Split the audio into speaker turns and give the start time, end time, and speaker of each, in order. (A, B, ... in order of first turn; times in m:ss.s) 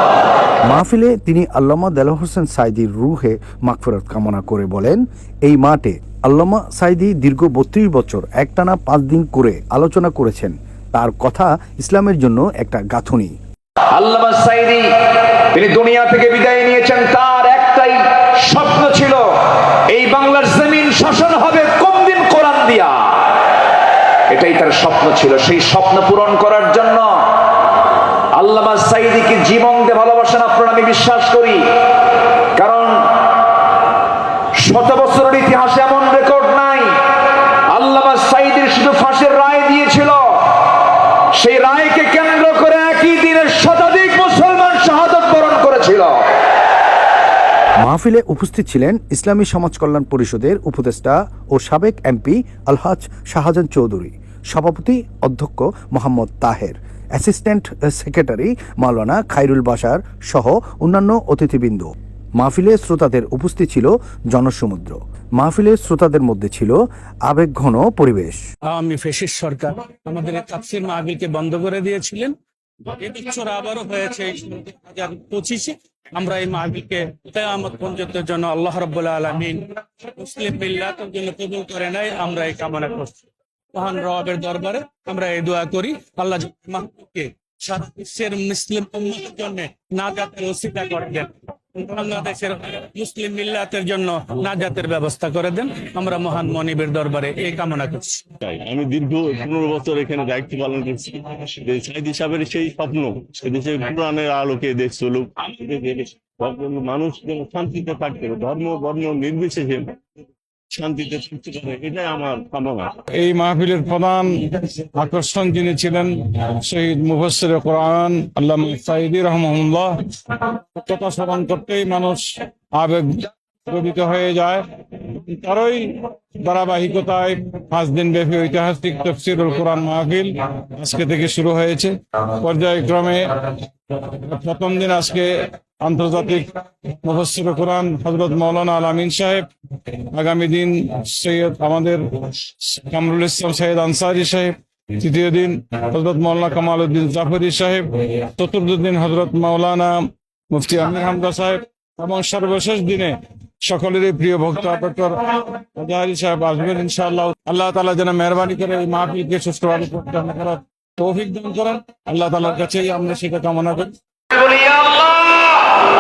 0:00.7-0:13.3 A
0:13.9-0:14.9 B
0:15.5-0:19.3 B
0:19.9-0:23.3 B
0:24.3-0:27.2 B
0:28.4-0:31.6 B
0:32.6-0:33.0 B
0:34.6-0:37.0 B
0:37.7-0:40.4 B
0:41.4-0:46.3 B
0:47.8-1:08.4 A
1:08.7-1:12.4 C
1:13.0-1:23.2 C
1:23.7-1:38.2 C
1:38.4-1:50.0 D
1:50.7-1:52.9 D
1:53.1-2:43.9 E
2:44.5-2:45.1 B